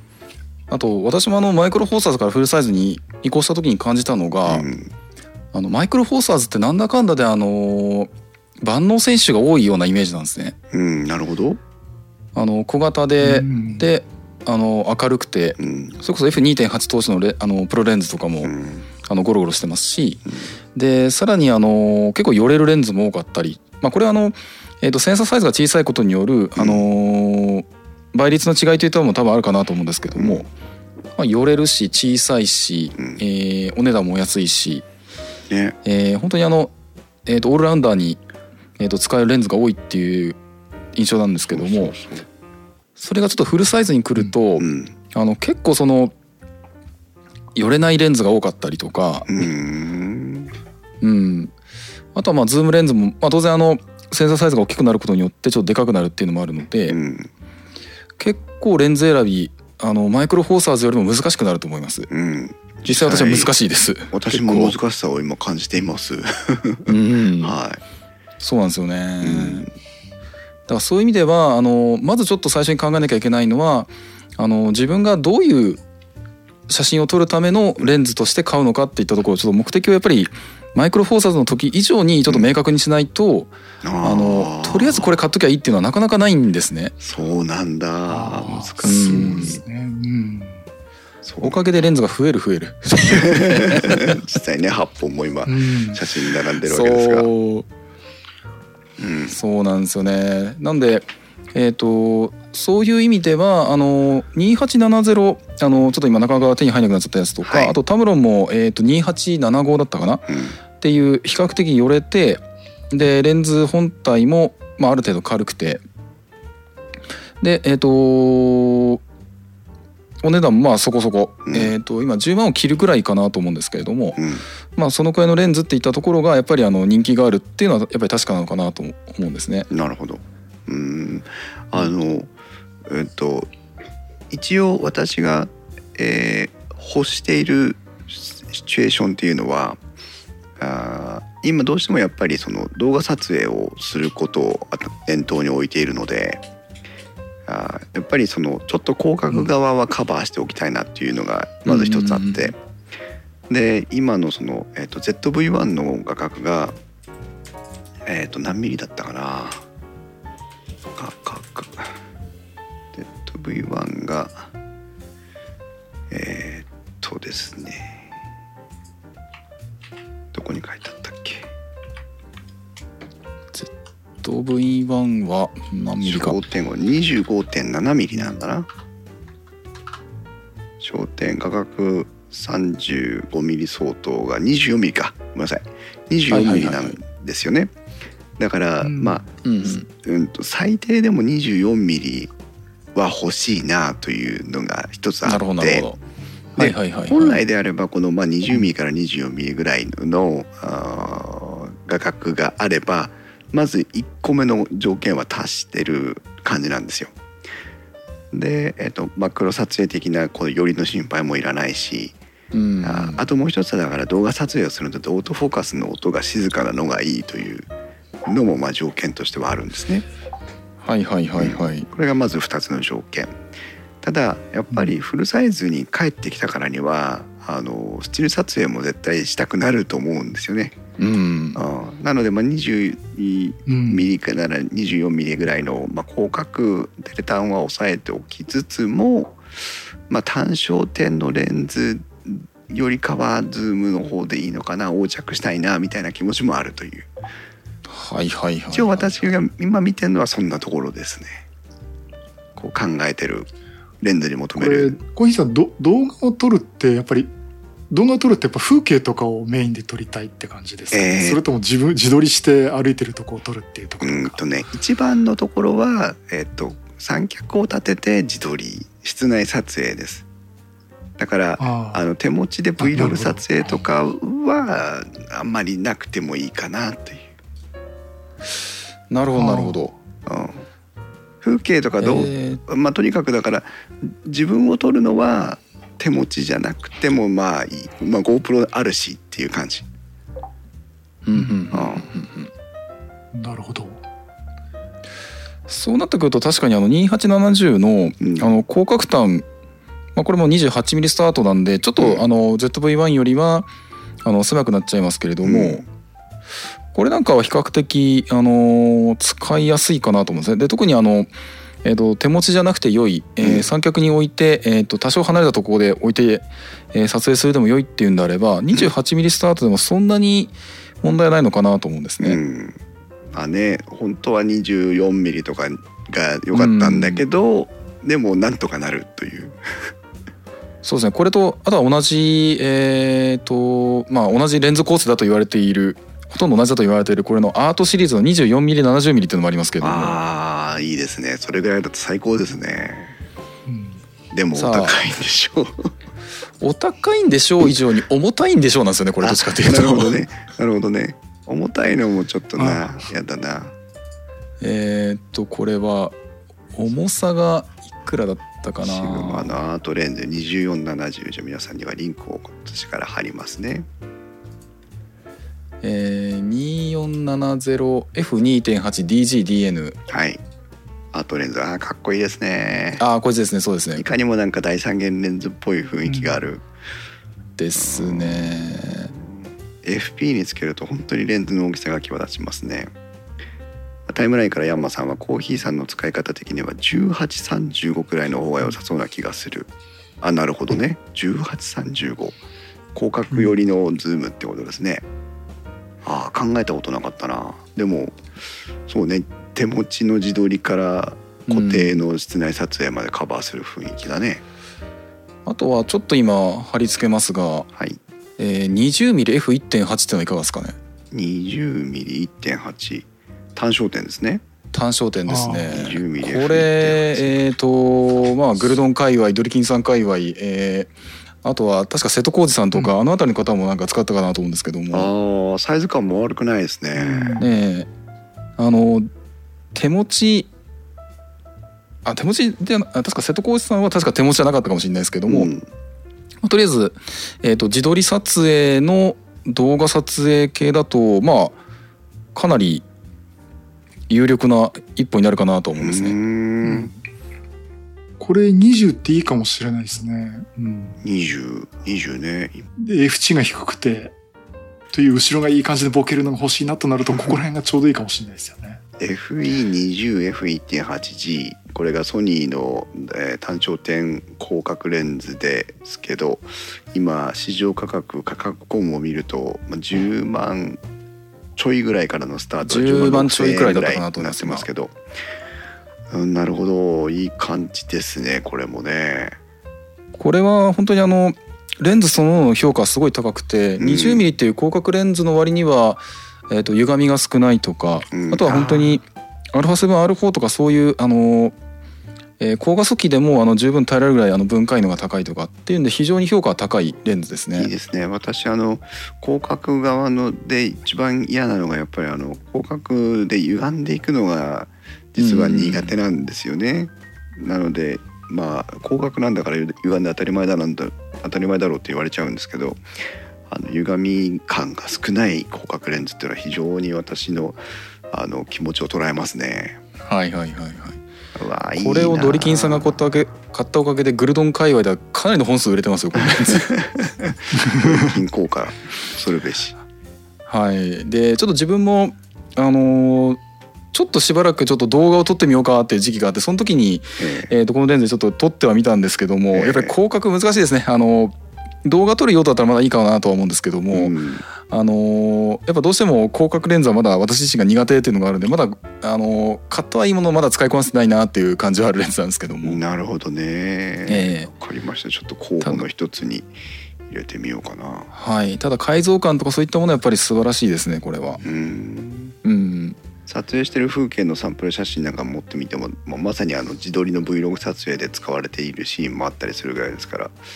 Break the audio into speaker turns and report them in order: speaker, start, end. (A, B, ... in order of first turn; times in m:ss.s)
0:00.7-0:04.6 A
0:04.5-0:04.9 B
0:05.5-0:08.1 A
0:08.6-0:10.6 A
0:10.7-0:11.6 B
0:12.3-0:18.5 A
0:13.2-0:13.9 C
0:15.6-0:16.0 B
0:18.4-0:18.9 B
0:19.0-0:20.2 A
0:20.7-0:30.5 A
0:26.6-0:26.8 B
0:30.1-0:30.5 B
0:31.2-0:34.8 A
0:35.5-0:35.8 B
0:35.8-0:36.7 A
0:37.2-0:38.2 A
0:38.8-0:40.4 A
0:40.9-0:41.9 A
0:41.5-0:42.3 B
0:43.0-0:46.1 A
0:44.6-0:44.9 B
0:47.5-0:49.3 A
0:49.3-0:50.5 B
0:51.0-0:51.5 A
0:52.1-0:57.0 A
0:56.9-0:57.3 B
0:58.2-1:02.1 A
1:02.1-1:03.5 B
1:02.8-1:04.8 A
1:04.1-1:07.8 B
1:06.8-1:07.5 A
1:08.4-1:09.7 A
1:09.2-1:09.7 B
1:10.7-1:15.8 A
1:16.7-1:26.9 A
1:23.8-1:25.1 B
1:27.0-1:29.6 B
1:28.1-1:30.6 C
1:28.8-1:29.6 A
1:31.2-1:31.6 B
1:31.4-1:34.2 A
1:33.1-1:37.3 B
1:35.4-1:36.0 C
1:36.7-1:37.7 A
1:39.0-1:39.3 B
1:39.3-1:50.2 A
1:47.4-1:47.8 B
1:50.3-1:50.6 B
1:50.8-1:55.8 A
1:57.4-1:59.0 A
2:00.2-2:04.2 A
2:01.5-2:01.7 B
2:04.2-2:04.4 B
2:04.8-2:09.7 A
2:09.7-2:12.3 B
2:12.8-2:13.5 B
2:14.3-2:19.8 B
2:20.6-2:26.4 B
2:27.4-2:32.6 B
2:31.6-2:32.5 A
2:33.5-2:36.8 B
2:38.0-2:39.6 B
2:40.9-2:42.0 B
2:42.9-2:44.5 B
2:46.1-2:48.1 B
2:50.3-2:51.5 B
2:54.2-2:56.4 A
2:56.0-2:58.7 B
3:00.8-3:07.7 B
3:06.3-3:07.0 A
3:08.4-3:12.3 B
3:08.8-3:09.2 C
3:09.4-3:09.9 A
3:12.9-3:15.9 B
3:15.2-3:16.0 A
3:16.6-3:27.1 B
3:16.6-3:17.4 A
3:28.3-3:32.2 B
3:32.5-3:33.3 A
3:32.8-3:37.7 B
3:38.2-3:40.0 B
3:40.8-3:41.9 A
3:41.4-3:43.4 B
3:44.0-3:50.8 B
3:51.0-3:51.6 A
3:51.5-4:07.1 B
3:53.7-3:54.1 C
4:07.9-4:09.1 A
4:08.7-4:11.4 B
4:12.6-4:13.5 B
4:14.0-4:15.0 B
4:14.6-4:17.3 C
4:17.9-4:24.4 C
4:20.9-4:21.4 B
4:24.0-4:30.2 B
4:31.2-4:37.3 B
4:31.6-4:32.0 C
4:32.8-4:33.4 C
4:39.1-4:39.9 A
4:39.4-4:39.8 C
4:40.2-4:40.6 B
4:41.4-4:49.9 B
4:42.0-4:42.6 A
4:51.2-4:52.5 A
4:51.3-4:51.6 C
4:51.7-4:52.0 B
4:53.3-4:54.0 C
4:55.7-4:59.4 A
4:58.2-4:58.6 B
5:00.2-5:03.7 A
5:04.2-5:05.8 A
5:05.4-5:05.8 B
5:06.9-5:11.3 A
5:11.8-5:22.4 A
5:22.2-5:22.8 B
5:23.3-5:29.9 B
5:26.5-5:27.2 A
5:30.8-5:40.2 A
5:39.8-5:43.2 B
5:43.6-5:44.0 C
5:44.3-5:45.9 B
5:44.5-5:45.0 A
5:46.6-5:50.2 A
5:49.2-5:53.8 B
5:52.6-5:52.9 C
5:54.6-5:56.1 A
5:56.7-5:59.5 A
5:58.8-6:03.9 B
6:05.8-6:10.0 A
6:10.1-6:10.4 B
6:11.1-6:13.0 B
6:13.0-6:14.0 A
6:14.0-6:16.6 B
6:16.1-6:16.4 C
6:17.6-6:19.1 A
6:17.8-6:22.9 B
6:24.1-6:29.7 B
6:30.2-6:32.4 B
6:32.9-6:35.0 B
6:36.0-6:38.2 B
6:38.8-6:44.4 B
6:41.5-6:42.0 A
6:45.4-6:47.7 A
6:47.7-6:48.0 B
6:48.4-6:50.8 A
6:51.1-6:54.4 B
6:54.7-7:00.9 A
6:55.3-6:55.9 C
6:55.7-6:57.4 B
7:01.4-7:05.1 A
7:04.9-7:07.4 B
7:06.9-7:07.4 C
7:07.4-7:07.9 A
7:08.6-7:09.1 A
7:09.7-7:10.5 A
7:12.0-7:15.5 A
7:15.3-7:15.6 B
7:16.4-7:21.6 A
7:22.3-7:22.8 A
7:24.1-7:26.2 A
7:25.8-7:26.9 B
7:26.6-7:27.0 C
7:28.2-7:31.0 C
7:31.0-7:32.6 B
7:32.8-7:34.1 C
7:34.9-7:38.8 C
7:39.0-7:50.8 B
7:51.6-7:55.0 B
7:52.6-7:54.6 A
7:56.1-7:59.4 B
8:00.1-8:11.5 A
8:03.8-8:04.2 B
8:08.1-8:09.0 B
8:12.4-8:17.7 A
8:17.5-8:32.8 B
8:25.2-8:25.9 A
8:33.5-8:39.8 B
8:40.0-8:41.0 A
8:41.3-8:43.0 B
8:41.8-8:46.7 A
8:46.3-8:49.8 B
8:50.5-8:53.4 A
8:53.9-9:12.8 A
8:57.2-8:57.5 B
8:59.5-8:59.9 B
9:03.9-9:04.4 B
9:12.6-9:16.5 B
9:14.1-9:14.5 A
9:17.1-9:18.1 B
9:18.1-9:21.4 A
9:21.4-9:22.4 B
9:22.4-9:23.0 A
9:23.2-9:30.4 B